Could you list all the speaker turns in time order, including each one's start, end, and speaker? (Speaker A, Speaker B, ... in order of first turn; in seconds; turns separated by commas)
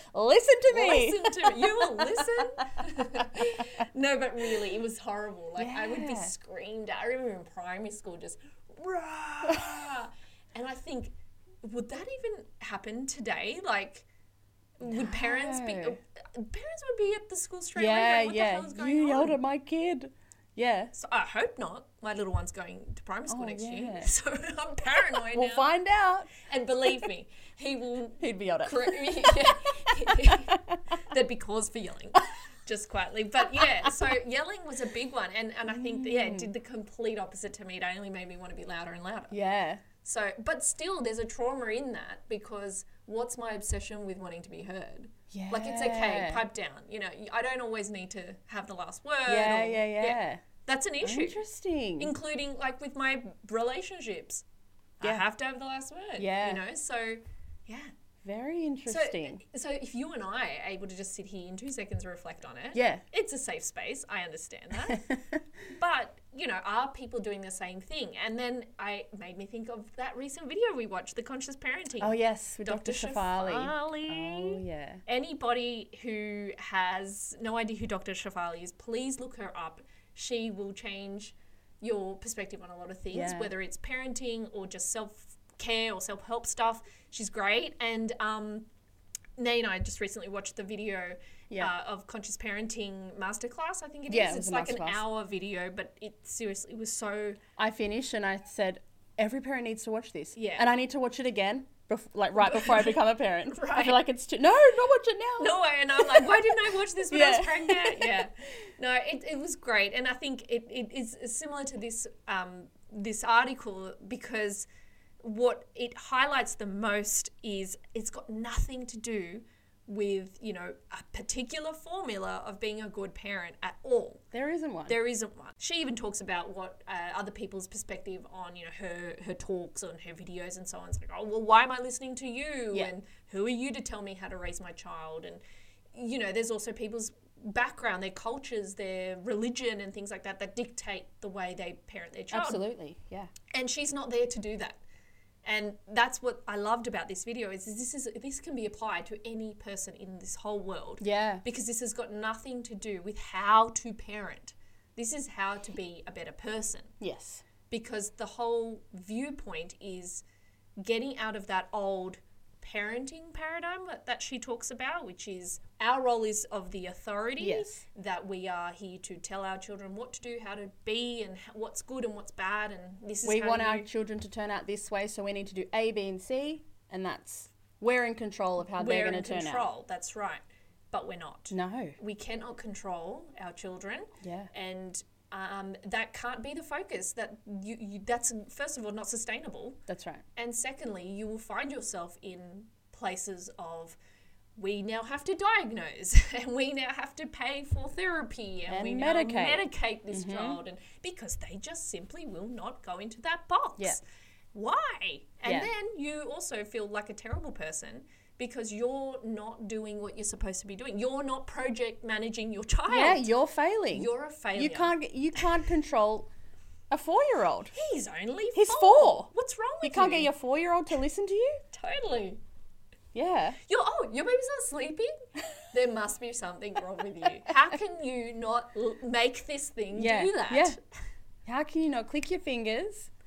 Speaker A: 0.1-2.5, Speaker B: 0.7-14.1, Speaker A: 5.6-6.3, Speaker B: 14.8-19.4, Speaker A: 14.8-16.0, Speaker A: 17.8-20.9, Speaker B: 20.9-25.7, Speaker A: 23.3-24.1, Speaker A: 25.3-26.3, Speaker B: 26.5-39.4, Speaker A: 28.2-30.8, Speaker A: 35.7-36.5, Speaker A: 39.3-39.8, Speaker B: 40.0-51.4, Speaker A: 45.3-46.5, Speaker A: 49.3-50.4, Speaker A: 51.0-52.1, Speaker B: 52.0-54.4, Speaker B: 55.0-57.9, Speaker A: 56.2-56.6, Speaker A: 58.2-59.4, Speaker B: 58.9-65.0, Speaker A: 62.7-63.0, Speaker A: 64.9-65.4, Speaker B: 65.7-88.7, Speaker A: 72.0-75.0, Speaker A: 83.1-83.5, Speaker B: 89.4-97.4, Speaker A: 94.1-95.0, Speaker A: 97.6-108.3, Speaker B: 100.3-100.7, Speaker B: 102.4-104.0, Speaker B: 105.4-114.7, Speaker B: 115.2-124.2, Speaker A: 124.3-125.0, Speaker B: 124.9-135.4, Speaker B: 135.9-142.7, Speaker A: 142.3-143.3, Speaker B: 143.5-144.8, Speaker B: 145.4-156.9, Speaker A: 151.0-151.4, Speaker A: 157.0-157.4, Speaker B: 157.7-160.2, Speaker B: 160.8-173.9, Speaker A: 167.4-167.8, Speaker A: 173.2-179.7, Speaker B: 178.8-189.8, Speaker A: 181.5-182.0, Speaker A: 184.2-184.5, Speaker A: 189.9-190.2, Speaker B: 190.4-194.0, Speaker B: 194.6-204.0, Speaker A: 198.7-200.6, Speaker B: 204.5-213.3, Speaker A: 205.4-205.7, Speaker A: 212.9-216.3, Speaker B: 213.9-215.7, Speaker A: 216.9-217.7, Speaker B: 217.7-220.3, Speaker A: 218.5-219.3, Speaker A: 219.8-221.6, Speaker B: 221.7-222.4, Speaker A: 223.1-223.6, Speaker B: 223.7-225.1, Speaker B: 225.7-230.8, Speaker A: 229.9-230.8, Speaker A: 231.5-233.1